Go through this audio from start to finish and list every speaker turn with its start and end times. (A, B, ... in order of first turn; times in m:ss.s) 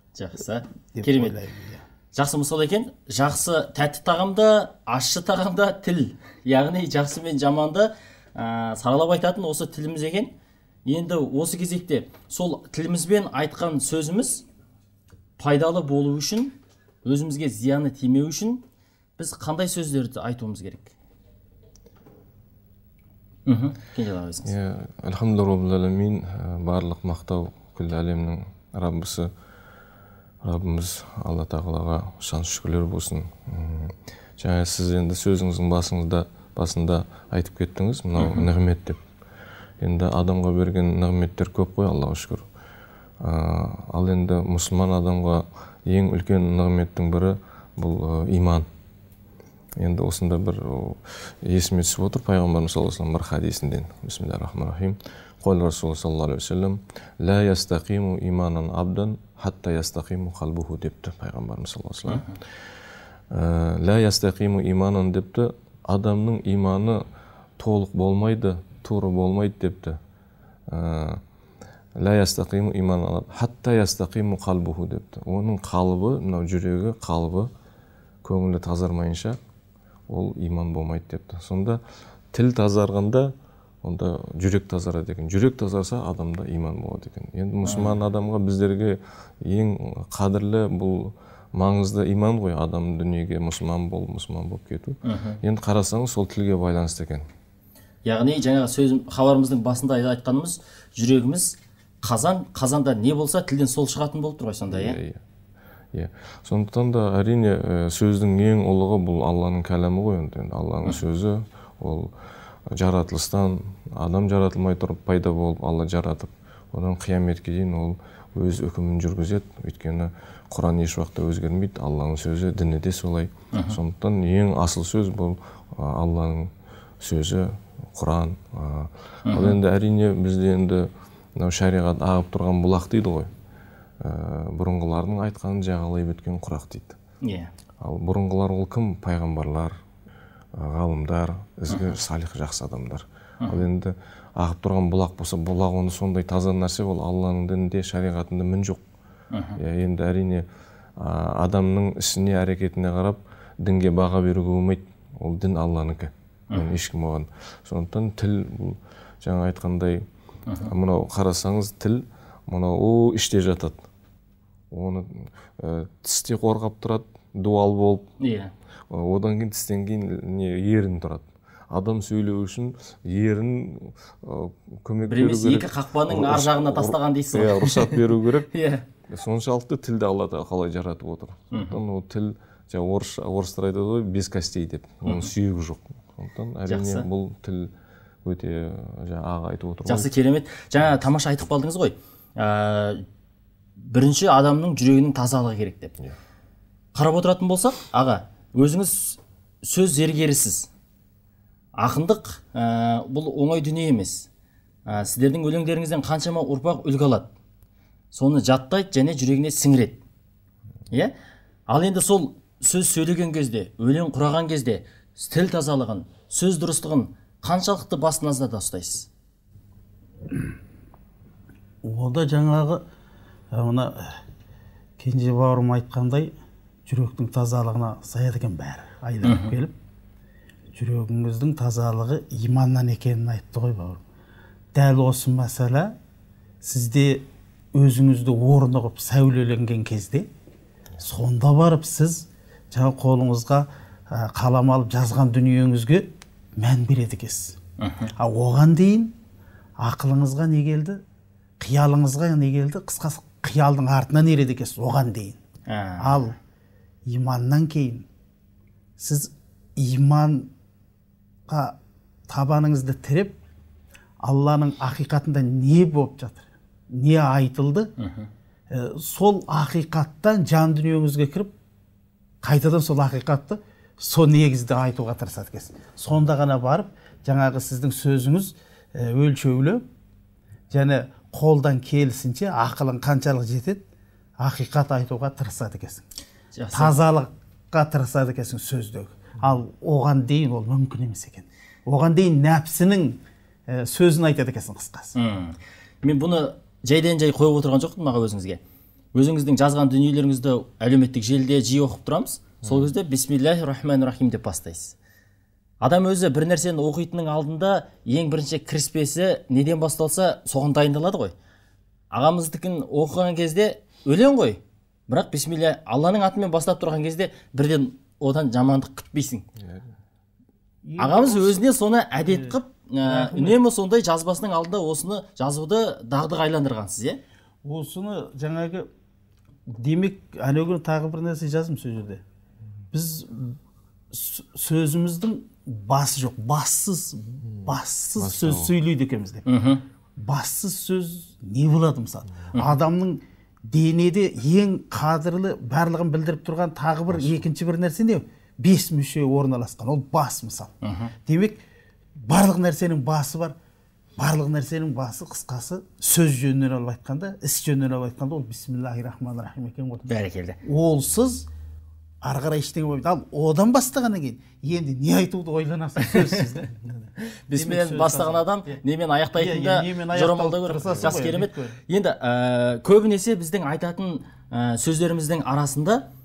0:00.2-0:01.4 A
0:01.0-0:01.8 B
0:02.2-0:10.3 A
0:10.9-0:14.4 A
0:15.4-0:18.6 A
0:19.2-0:20.9 A
0:23.5-0:24.5 A
0:24.4-0:29.3 C
0:30.4-0:39.0 C
0:38.2-0:38.5 A
0:39.8-0:42.5 C
0:43.2-0:48.7 C
0:49.8-1:02.4 C
1:02.1-1:02.4 A
1:03.3-1:07.0 C
1:07.6-1:10.0 C
1:10.7-1:11.2 C
1:12.0-1:17.5 C
1:18.2-1:19.4 C
1:20.1-1:21.8 C
1:22.3-1:37.3 C
1:27.6-1:28.0 A
1:35.0-1:35.4 A
1:38.0-1:45.0 A
1:44.7-1:45.2 C
1:45.9-1:52.1 C
1:52.7-2:13.3 C
2:03.5-2:03.8 A
2:09.3-2:09.6 A
2:14.0-2:17.0 C
2:17.2-2:17.5 A
2:17.8-2:19.8 C
2:20.6-2:28.8 C
2:21.7-2:22.0 A
2:29.3-2:29.6 A
2:29.6-2:30.5 C
2:31.0-2:40.0 C
2:40.5-2:40.7 A
2:40.6-2:43.9 C
2:44.7-2:48.1 C
2:48.2-2:48.5 A
2:48.9-2:58.5 C
2:55.1-2:58.9 A
2:59.0-3:07.7 C
3:01.5-3:01.8 A
3:05.0-3:05.3 A
3:06.7-3:07.1 A
3:08.2-3:10.1 C
3:09.9-3:13.0 A
3:13.8-3:16.0 A
3:17.0-3:20.7 A
3:21.8-3:24.3 A
3:24.9-3:27.3 A
3:28.1-3:30.0 A
3:31.7-3:39.1 A
3:41.8-3:42.8 B
3:43.5-3:44.2 B
3:45.0-3:46.3 B
3:46.9-3:49.8 B
3:49.2-3:49.5 A
3:50.8-3:54.0 B
3:54.8-3:56.0 B
3:56.6-4:00.3 B
4:01.0-4:07.6 B
4:07.8-4:08.1 A
4:08.2-4:09.1 B
4:09.8-4:11.0 B
4:11.6-4:15.4 B
4:15.7-4:16.2 A
4:16.0-4:16.4 B
4:17.1-4:18.0 B
4:19.0-4:20.5 B
4:21.5-4:21.8 B
4:22.3-4:23.4 B
4:24.2-4:27.9 B
4:28.0-4:28.3 A
4:28.7-4:31.5 B
4:32.4-4:39.8 B
4:40.7-4:43.8 B
4:44.4-4:46.1 B
4:46.6-4:46.9 A
4:46.7-4:55.2 B
4:55.2-4:58.6 A
4:59.2-5:05.0 A
5:05.8-5:11.4 A
5:12.1-5:19.5 A
5:19.6-5:19.9 C
5:20.9-5:23.6 B
5:21.0-5:27.2 A
5:27.6-5:28.9 B
5:29.7-5:32.2 B
5:32.9-5:33.6 B
5:34.1-5:39.4 B
5:38.2-5:38.7 C
5:39.5-5:39.8 A
5:40.2-5:50.7 B
5:47.1-5:47.4 C
5:50.8-5:51.1 A
5:51.3-5:51.6 B
5:52.2-5:53.6 B
5:54.2-6:00.1 B
6:00.1-6:00.6 A
6:00.6-6:01.5 B
6:02.2-6:08.8 B
6:06.0-6:06.4 A
6:07.2-6:16.1 A
6:09.3-6:11.8 B
6:10.9-6:11.2 C